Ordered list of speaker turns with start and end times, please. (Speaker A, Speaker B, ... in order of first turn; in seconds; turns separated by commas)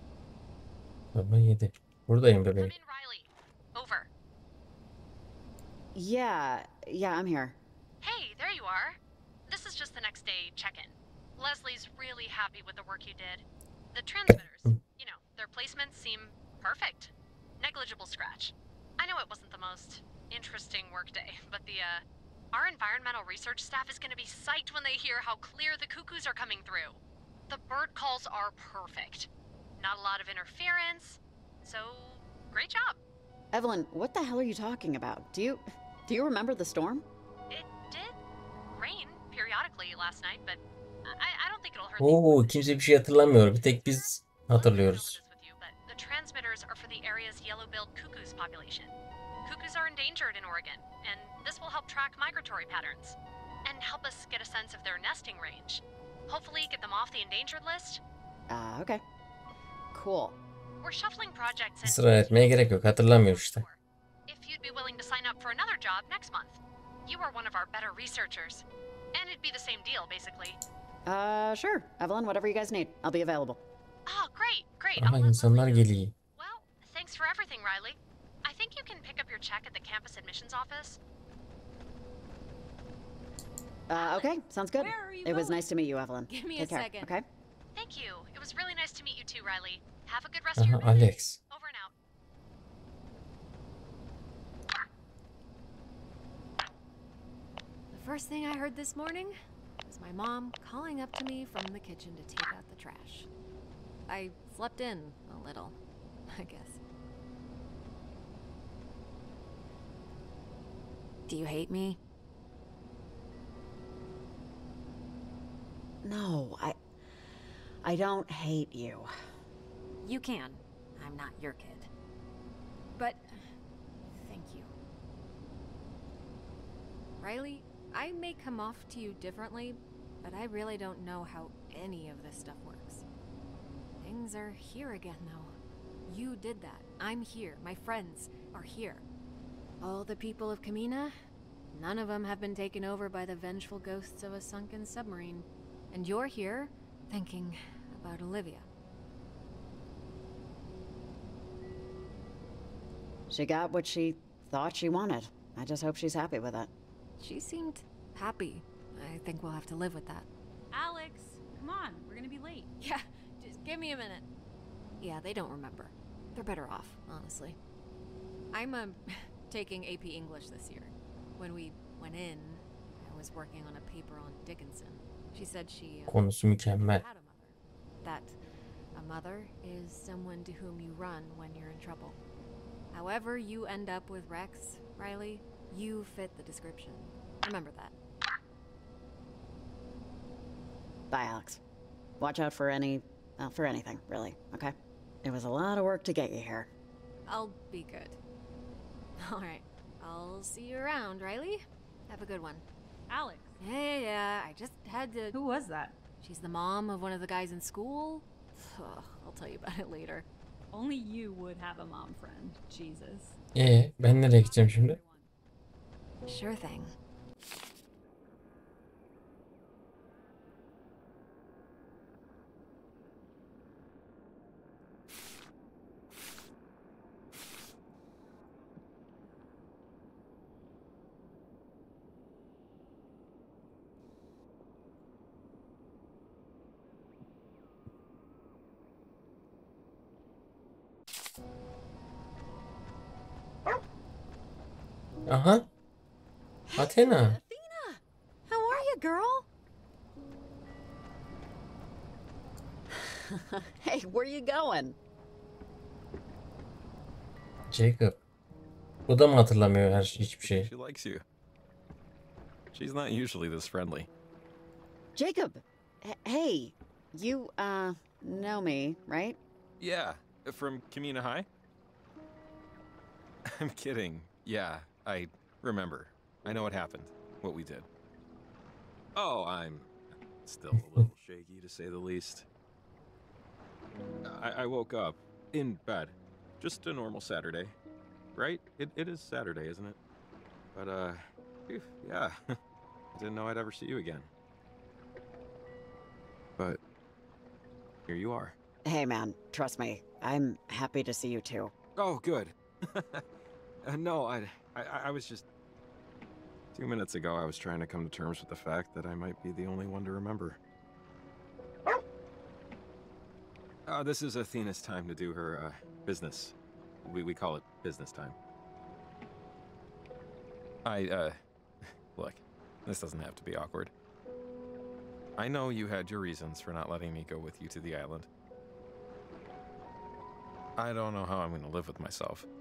Speaker A: 1.1-2.7, Speaker B: 2.5-4.1, Speaker C: 5.9-7.6, Speaker B: 8.0-33.0, Speaker A: 14.3-14.8, Speaker C: 33.5-37.0, Speaker B: 37.5-38.2, Speaker B: 38.7-42.8, Speaker A: 42.0-45.2, Speaker B: 43.5-48.9, Speaker B: 49.4-58.0, Speaker C: 58.5-59.0, Speaker C: 59.9-60.4, Speaker B: 60.8-70.6, Speaker A: 61.8-63.6, Speaker C: 71.0-73.6, Speaker B: 74.0-81.0, Speaker A: 74.9-76.1, Speaker C: 83.9-87.2, Speaker B: 83.9-84.3, Speaker D: 84.8-85.6, Speaker E: 85.0-85.3, Speaker E: 86.3-87.1, Speaker B: 87.7-91.9, Speaker A: 90.5-91.4, Speaker E: 97.9-103.3, Speaker E: 104.1-105.8, Speaker E: 106.3-106.8, Speaker E: 111.3-112.0, Speaker C: 116.0-116.8, Speaker C: 117.8-119.1, Speaker E: 120.0-121.9, Speaker E: 122.9-123.5, Speaker E: 124.1-124.7, Speaker E: 127.2-133.0, Speaker E: 134.0-139.0, Speaker E: 139.8-141.2, Speaker E: 141.7-148.7, Speaker C: 153.3-156.7, Speaker E: 157.2-160.3, Speaker D: 160.7-162.7, Speaker E: 162.8-164.3, Speaker E: 165.0-167.6, Speaker E: 168.5-176.2, Speaker A: 176.1-177.0, Speaker E: 176.8-178.4, Speaker E: 178.9-182.2, Speaker E: 182.9-187.9, Speaker C: 191.1-191.6, Speaker C: 192.2-196.7, Speaker E: 197.2-198.2, Speaker E: 199.2-202.6, Speaker D: 203.1-203.6, Speaker E: 203.6-205.4, Speaker D: 205.3-206.0, Speaker E: 206.2-210.3, Speaker D: 210.7-213.4, Speaker A: 213.5-215.0, Speaker D: 214.0-215.3, Speaker E: 216.2-216.9, Speaker A: 245.3-245.7, Speaker C: 246.7-249.4, Speaker A: 246.8-247.4, Speaker C: 252.9-255.0, Speaker A: 257.7-258.2, Speaker A: 259.1-260.7, Speaker F: 260.4-261.2, Speaker F: 262.7-264.1, Speaker C: 265.1-269.4, Speaker F: 269.8-271.5, Speaker F: 273.4-277.9, Speaker F: 279.1-279.9, Speaker F: 280.4-282.4, Speaker F: 284.2-287.8, Speaker F: 288.3-290.0, Speaker F: 290.7-292.4, Speaker F: 293.1-294.3, Speaker F: 298.1-298.5, Speaker C: 298.8-301.7, Speaker F: 301.9-303.2, Speaker F: 303.8-305.4, Speaker F: 306.7-310.6, Speaker F: 313.9-318.4, Speaker F: 320.8-323.9, Speaker F: 325.4-328.3, Speaker F: 330.8-332.4